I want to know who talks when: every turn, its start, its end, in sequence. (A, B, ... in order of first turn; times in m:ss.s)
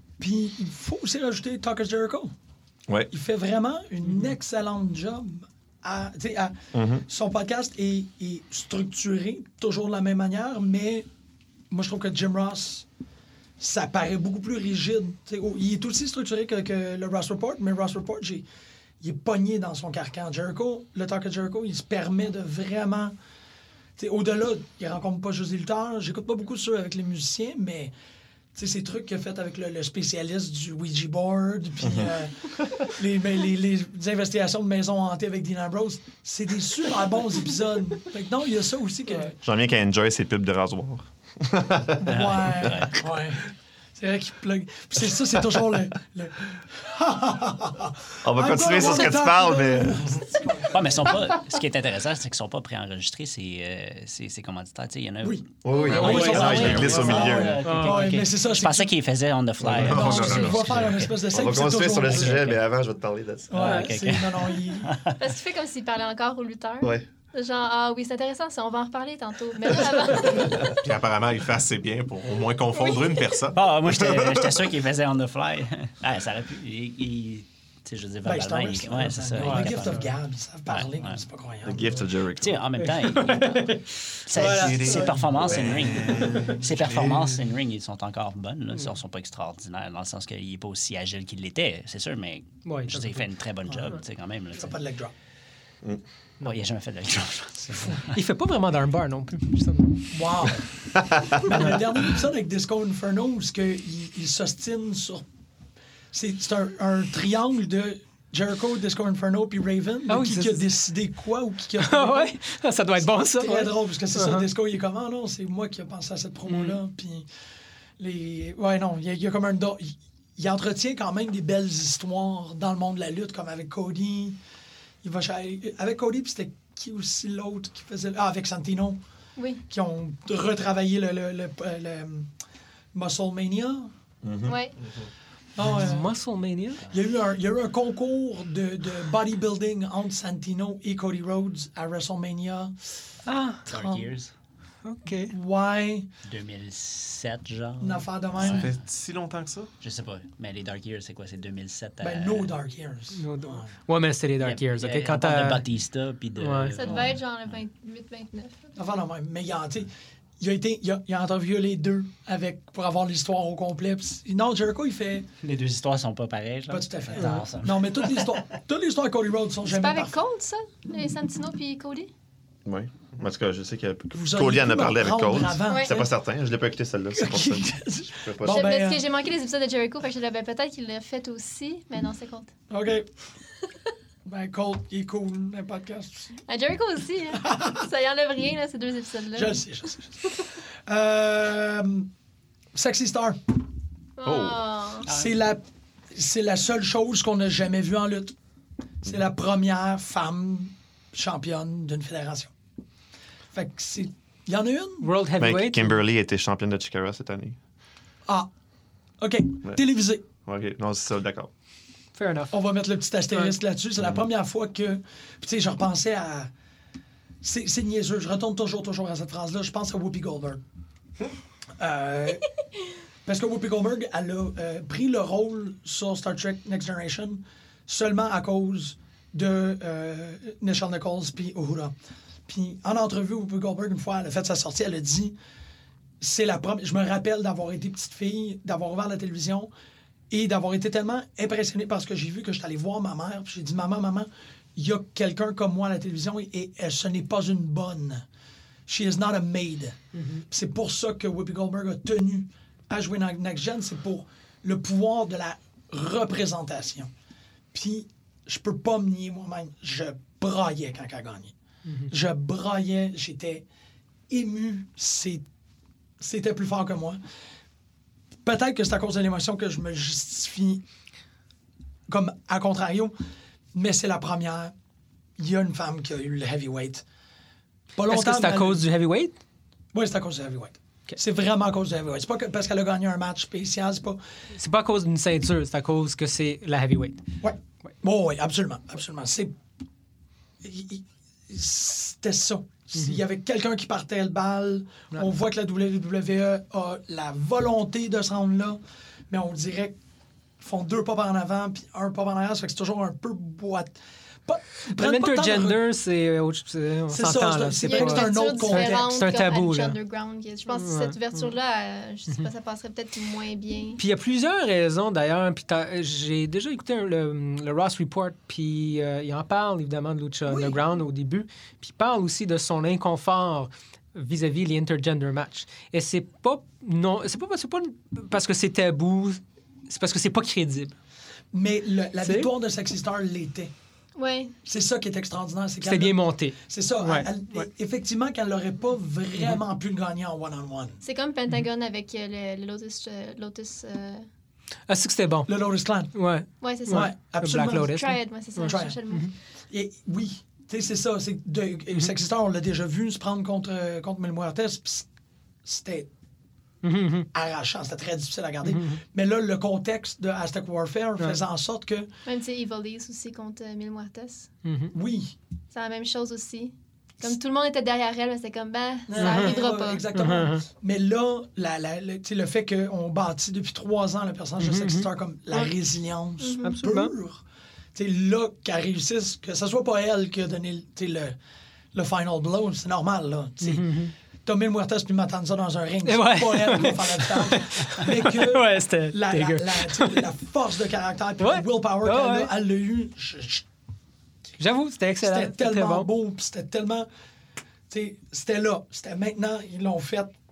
0:00.2-0:02.3 A
0:03.1-0:11.0 A
0:06.7-0:07.0 B
0:11.7-0:12.8 A
0:13.6-0:18.4 A
0:19.0-0:23.1 A
0:24.0-0:27.9 A
0:28.5-0:39.3 A
0:31.8-0:32.1 B
0:39.4-0:42.7 B
0:42.0-0:51.3 A
0:42.0-0:43.1 C
0:48.2-0:50.2 B
0:50.7-1:01.2 C
0:55.2-0:58.9 A
0:55.6-0:57.6 B
0:55.9-0:58.2 D
0:59.6-1:00.9 E
0:59.8-1:02.4 A
1:01.3-1:03.8 B
1:02.1-1:02.6 C
1:03.5-1:05.0 A
1:03.5-1:05.2 C
1:03.6-1:03.9 D
1:05.2-1:10.8 F
1:10.6-1:14.6 E
1:12.7-1:13.3 F
1:13.5-1:20.1 C
1:18.2-1:21.9 A
1:19.4-1:20.1 D
1:20.7-1:21.2 C
1:21.6-1:22.6 B
1:22.4-1:23.7 C
1:22.8-1:25.2 D
1:24.2-1:34.8 C
1:24.4-1:27.4 E
1:26.2-1:26.5 D
1:32.6-1:33.2 D
1:33.7-1:33.9 A
1:34.5-1:35.1 A
1:36.4-1:38.2 C
1:37.9-1:40.1 D
1:40.1-1:40.7 A
1:41.1-1:41.3 B
1:41.4-1:45.2 A
1:41.5-1:41.8 D
1:46.1-1:52.4 A
1:50.1-1:50.6 D
1:51.8-1:54.5 D
1:53.0-1:57.2 A
1:56.5-1:56.8 D
1:58.0-2:04.4 A
2:05.0-2:09.0 A
2:09.4-2:09.6 F
2:09.7-2:12.3 A
2:12.9-2:13.9 A
2:14.2-2:14.7 B
2:14.4-2:14.8 F
2:15.6-2:16.1 A
2:15.6-2:16.8 D
2:16.9-2:22.7 A
2:23.3-2:23.7 D
2:23.6-2:24.3 C
2:23.7-2:24.1 A
2:24.8-2:25.3 D
2:25.3-2:26.1 A
2:26.2-2:28.8 C
2:27.8-2:28.7 A
2:28.4-2:29.7 E
2:29.8-2:32.5 C
2:32.0-2:33.7 A
2:33.1-2:35.6 D
2:34.4-2:37.5 C
2:36.4-2:37.0 D
2:36.8-2:38.7 F
2:38.8-2:45.3 A
2:45.4-2:48.3 C
2:46.7-2:50.1 A
2:49.6-2:52.1 F
2:52.6-2:58.8 B
2:54.1-2:56.1 A
2:55.7-2:56.0 F
2:57.1-2:59.0 A
2:58.4-3:02.5 F
3:02.7-3:03.1 A
3:04.2-3:06.3 A
3:06.5-3:09.6 F
3:07.4-3:07.8 A
3:09.3-3:12.1 A
3:12.7-3:13.6 A
3:14.2-3:15.1 F
3:14.3-3:14.6 E
3:15.0-3:15.3 C
3:15.0-3:18.3 A
3:19.0-3:22.5 A
3:23.5-3:25.1 A
3:25.0-3:26.0 D
3:25.4-3:27.6 B
3:29.2-3:30.2 A
3:30.4-3:31.5 B
3:32.2-3:32.5 D
3:32.5-3:36.5 A
3:33.3-3:33.6 D
3:37.4-3:40.6 A
3:41.8-3:42.5 A
3:43.2-3:51.9 A
3:52.5-3:55.3 A
3:56.2-3:59.7 A
4:00.3-4:08.2 A
4:08.9-4:17.1 A
4:10.2-4:10.4 D
4:17.7-4:21.5 A
4:22.1-4:23.6 A
4:24.3-4:25.4 A
4:26.2-4:27.2 A
4:28.4-4:30.8 A
4:32.1-4:33.2 A
4:33.7-4:34.7 A
4:35.4-4:37.0 A
4:38.0-4:38.8 A
4:38.1-4:39.4 D
4:39.9-4:44.2 A
4:44.5-4:47.2 D
4:47.4-4:49.5 A
4:50.6-4:58.8 A
4:59.3-4:59.9 A
5:00.6-5:03.9 A
5:04.5-5:05.8 A
5:04.9-5:10.0 D
5:07.1-5:09.2 A
5:07.8-5:14.0 F
5:10.7-5:11.5 D
5:14.0-5:30.9 D
5:20.5-5:20.8 A
5:31.5-5:33.7 A
5:32.2-5:32.5 D
5:34.2-5:34.5 F
5:34.6-5:41.0 A
5:35.8-5:37.7 D
5:41.0-5:44.2 F
5:44.9-5:45.5 D
5:45.5-5:46.2 A
5:46.1-5:49.3 D
5:46.6-5:47.1 F
5:46.9-5:48.0 A
5:47.9-5:49.3 F
5:48.6-5:49.0 A
5:49.7-5:55.1 A
5:55.6-5:56.1 A
5:56.8-5:57.3 D
5:57.3-6:02.1 A
5:58.6-5:59.0 D
6:02.2-6:04.5 F
6:04.6-6:04.9 D
6:04.9-6:05.3 A
6:05.7-6:10.0 F
6:09.1-6:17.4 A
6:09.2-6:09.6 D
6:10.1-6:10.6 D
6:14.6-6:15.1 D
6:16.4-6:16.7 F
6:16.6-6:17.1 D
6:17.9-6:21.4 A
6:21.9-6:23.9 A
6:23.6-6:24.1 D
6:24.4-6:33.6 A
6:26.0-6:30.3 D
6:31.4-6:32.5 D
6:34.6-6:36.1 D
6:35.2-6:37.1 A
6:37.9-6:40.3 A